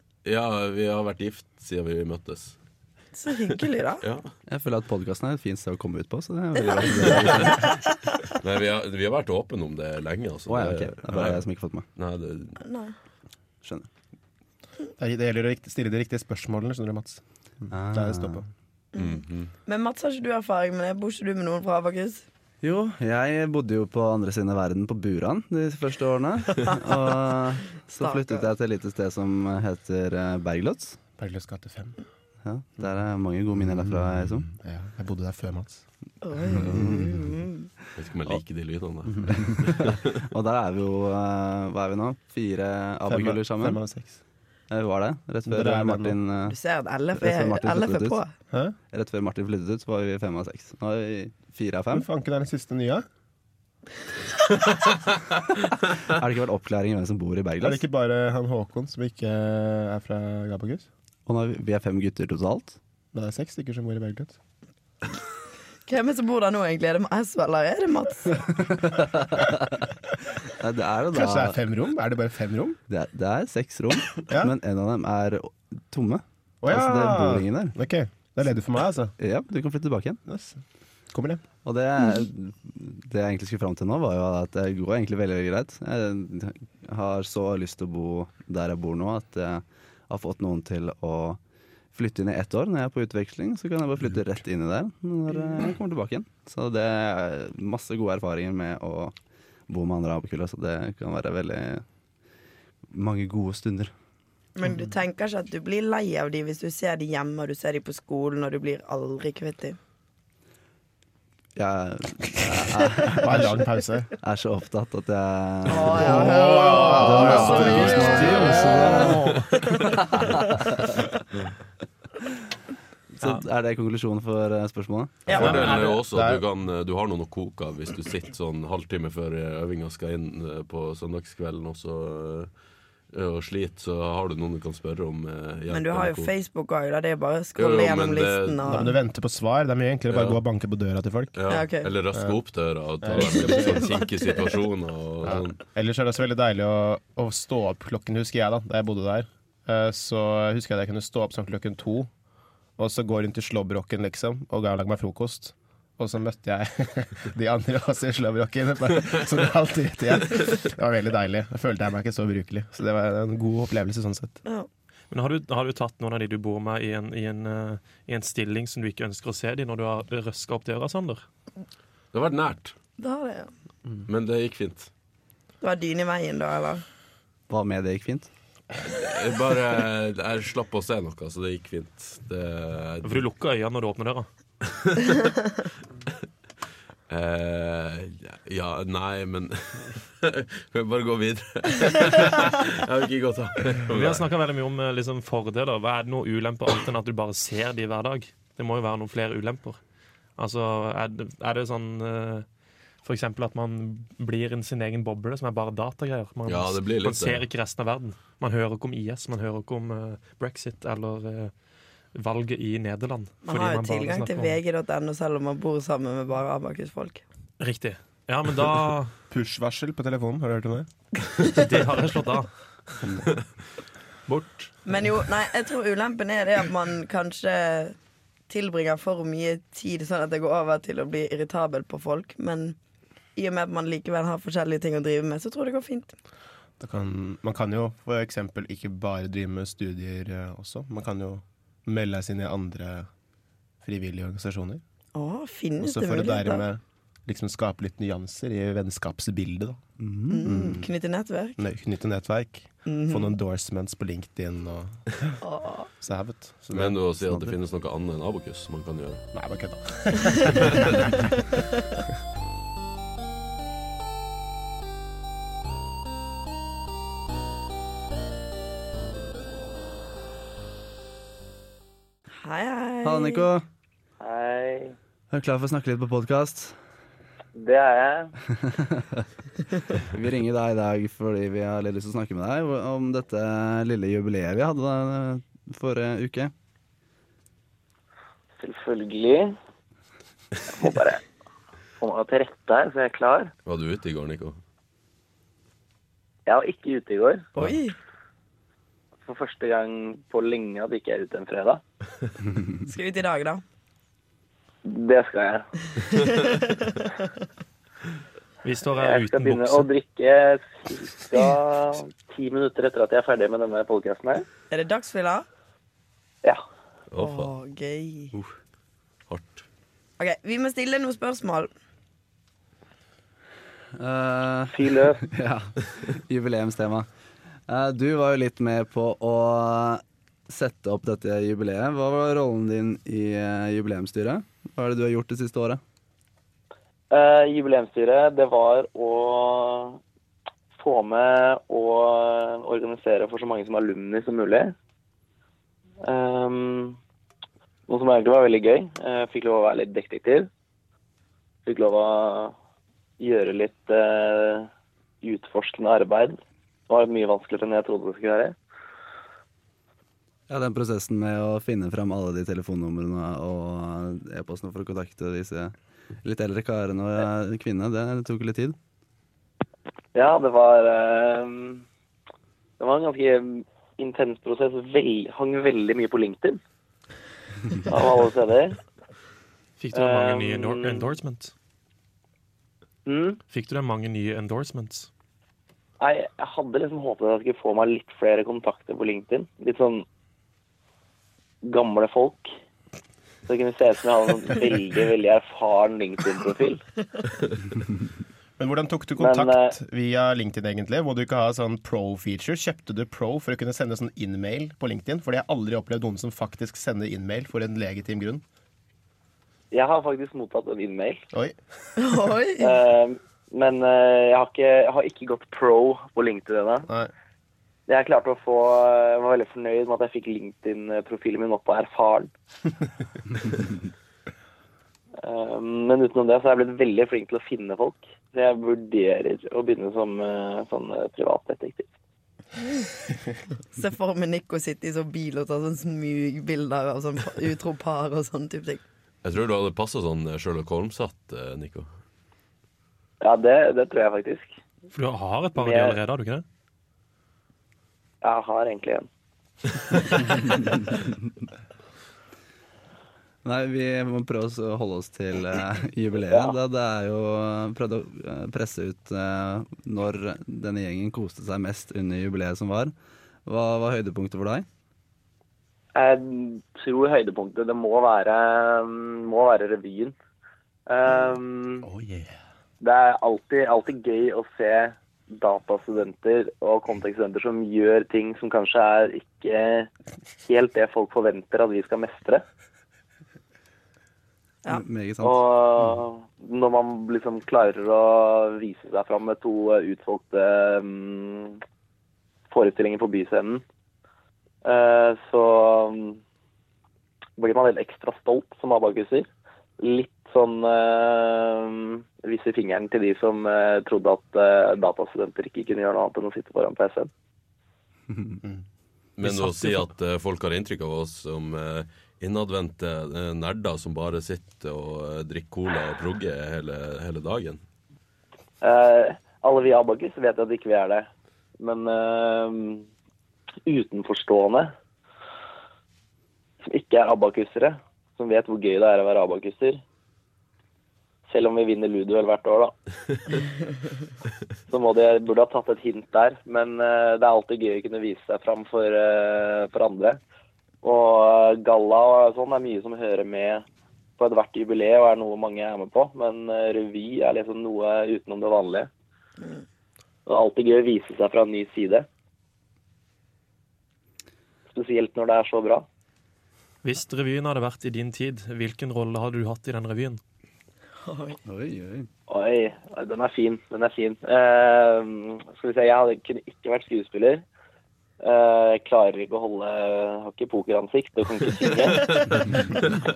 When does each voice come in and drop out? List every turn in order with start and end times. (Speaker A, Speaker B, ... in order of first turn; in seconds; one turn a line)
Speaker A: 0.2-2.6
Speaker B: 3.2-4.0
Speaker A: 4.0-4.3
Speaker C: 4.5-7.8
Speaker A: 6.9-7.7
Speaker A: 8.3-11.4
Speaker C: 10.5-11.9
Speaker A: 12.0-12.6
Speaker B: 12.6-12.9
Speaker C: 13.6-13.9
Speaker D: 15.0-18.5
Speaker C: 17.7-18.4
Speaker B: 18.9-22.2
Speaker A: 19.0-19.5
Speaker C: 22.6-31.0
Speaker B: 28.0-28.5
Speaker D: 31.2-32.0
Speaker C: 32.4-34.5
Speaker D: 33.7-35.8
Speaker B: 36.2-37.7
Speaker C: 36.5-37.2
Speaker A: 38.0-40.1
Speaker C: 39.3-43.8
Speaker D: 43.1-44.2
Speaker C: 44.7-46.6
Speaker D: 45.5-46.2
Speaker B: 46.5-48.3
Speaker C: 47.2-48.2
Speaker C: 48.9-52.1
Speaker D: 51.9-53.0
Speaker C: 56.1-57.8
Speaker D: 57.6-60.9
Speaker C: 61.3-62.8
Speaker D: 63.1-64.4
Speaker B: 65.9-68.4
Speaker C: 68.6-69.8
Speaker C: 70.5-71.6
Speaker D: 71.1-72.8
Speaker C: 72.9-77.8
Speaker D: 74.3-74.5
Speaker D: 76.6-79.1
Speaker C: 79.2-80.2
Speaker D: 80.3-80.6
Speaker D: 81.1-81.4
Speaker C: 81.7-91.4
Speaker C: 91.9-99.2
Speaker C: 99.7-101.8
Speaker C: 102.9-103.9
Speaker B: 104.6-109.8
Speaker C: 111.6-113.6
Speaker D: 113.1-114.1
Speaker C: 114.2-119.4
Speaker B: 115.7-118.9
Speaker D: 115.9-119.0
Speaker E: 117.1-119.9
Speaker C: 119.9-120.9
Speaker C: 123.1-125.3
Speaker A: 125.3-132.5
Speaker D: 125.3-126.4
Speaker E: 125.3-126.0
Speaker A: 133.1-136.3
Speaker B: 135.7-139.0
Speaker A: 137.6-138.8
Speaker D: 138.7-141.4
Speaker A: 140.1-140.4
Speaker A: 141.3-145.6
Speaker B: 141.5-141.9
Speaker D: 143.0-143.8
Speaker B: 143.2-144.5
Speaker D: 145.2-152.1
Speaker D: 152.8-164.4
Speaker E: 165.1-171.2
Speaker A: 172.1-172.7
Speaker B: 173.0-173.5
Speaker A: 174.1-174.9
Speaker B: 175.6-176.8
Speaker C: 177.5-178.3
Speaker A: 178.9-183.2
Speaker E: 183.0-184.3
Speaker A: 184.7-185.0
Speaker A: 187.1-194.3
Speaker E: 193.9-199.8
Speaker E: 200.4-202.5
Speaker E: 203.0-211.5
Speaker A: 206.5-207.4
Speaker E: 212.1-214.6
Speaker B: 213.4-217.2
Speaker E: 217.6-219.1
Speaker D: 219.3-220.9
Speaker E: 221.5-222.5
Speaker E: 224.3-224.7
Speaker B: 224.9-228.0
Speaker B: 228.5-232.8
Speaker B: 233.4-236.1
Speaker D: 236.8-243.1
Speaker D: 243.8-244.8
Speaker B: 245.2-246.7
Speaker D: 245.8-249.8
Speaker C: 250.0-250.8
Speaker B: 250.3-251.6
Speaker D: 250.5-250.9
Speaker D: 251.6-255.4
Speaker B: 252.9-253.3
Speaker B: 255.4-255.9
Speaker D: 256.0-257.0
Speaker A: 256.7-259.2
Speaker C: 257.3-257.6
Speaker D: 259.3-261.2
Speaker B: 272.4-273.5
Speaker C: 273.0-273.7
Speaker F: 274.2-275.0
Speaker C: 275.3-276.8
Speaker F: 277.6-278.3
Speaker C: 278.6-279.2
Speaker C: 280.0-286.5
Speaker F: 288.6-289.6
Speaker F: 290.7-291.2
Speaker F: 292.0-293.5
Speaker A: 293.7-294.6
Speaker F: 296.5-297.5
Speaker B: 297.6-297.9
Speaker F: 299.3-301.8
Speaker B: 302.9-303.6
Speaker F: 304.9-305.7
Speaker B: 306.0-306.9
Speaker E: 308.6-309.9
Speaker F: 308.9-314.5
Speaker B: 314.7-315.5
Speaker A: 317.1-317.5
Speaker B: 317.2-318.3
Speaker A: 319.3-319.6
Speaker B: 320.2-321.7
Speaker C: 323.9-327.1
Speaker F: 324.7-325.2
Speaker C: 327.7-335.8
Speaker F: 337.1-340.0
Speaker F: 340.8-344.7
Speaker F: 346.0-347.0
Speaker F: 347.9-350.5
Speaker F: 351.6-352.6
Speaker F: 353.2-354.7
Speaker F: 355.2-356.4
Speaker F: 356.9-358.6
Speaker C: 360.5-368.8
Speaker F: 370.1-371.9
Speaker F: 372.8-376.6
Speaker F: 377.9-378.8
Speaker E: 379.8-381.5
Speaker F: 379.9-381.1
Speaker F: 383.1-383.4
Speaker E: 383.5-385.1
Speaker F: 386.0-390.1
Speaker F: 391.6-392.5
Speaker F: 393.5-396.8
Speaker D: 398.6-408.4
Speaker F: 399.2-399.8
Speaker F: 409.7-411.2
Speaker B: 412.0-412.8
Speaker F: 412.6-416.9
Speaker F: 417.9-422.3
Speaker F: 425.2-431.9
Speaker B: 433.7-438.8
Speaker A: 439.2-441.9
Speaker F: 443.2-444.5
Speaker E: 444.9-446.4
Speaker F: 445.6-446.0
Speaker F: 448.2-449.1
Speaker C: 453.4-462.9
Speaker C: 463.5-464.7
Speaker F: 465.9-470.1
Speaker F: 470.9-471.9
Speaker D: 471.8-472.4
Speaker F: 472.8-479.9
Speaker F: 480.5-482.4
Speaker C: 484.7-485.4
Speaker F: 485.2-491.6
Speaker F: 492.5-493.6
Speaker F: 494.6-496.2
Speaker F: 497.4-499.3
Speaker F: 499.8-507.1
Speaker A: 509.2-517.6
Speaker E: 509.2-509.9
Speaker F: 518.6-522.9
Speaker F: 523.7-524.7
Speaker F: 526.6-529.8
Speaker F: 531.3-532.7
Speaker F: 534.7-540.2
Speaker F: 540.8-543.6
Speaker F: 544.2-548.9
Speaker F: 550.3-552.1
Speaker F: 554.7-555.9
Speaker E: 556.8-560.2
Speaker B: 561.0-561.4
Speaker C: 561.5-562.1
Speaker F: 562.3-567.4
Speaker F: 568.2-572.2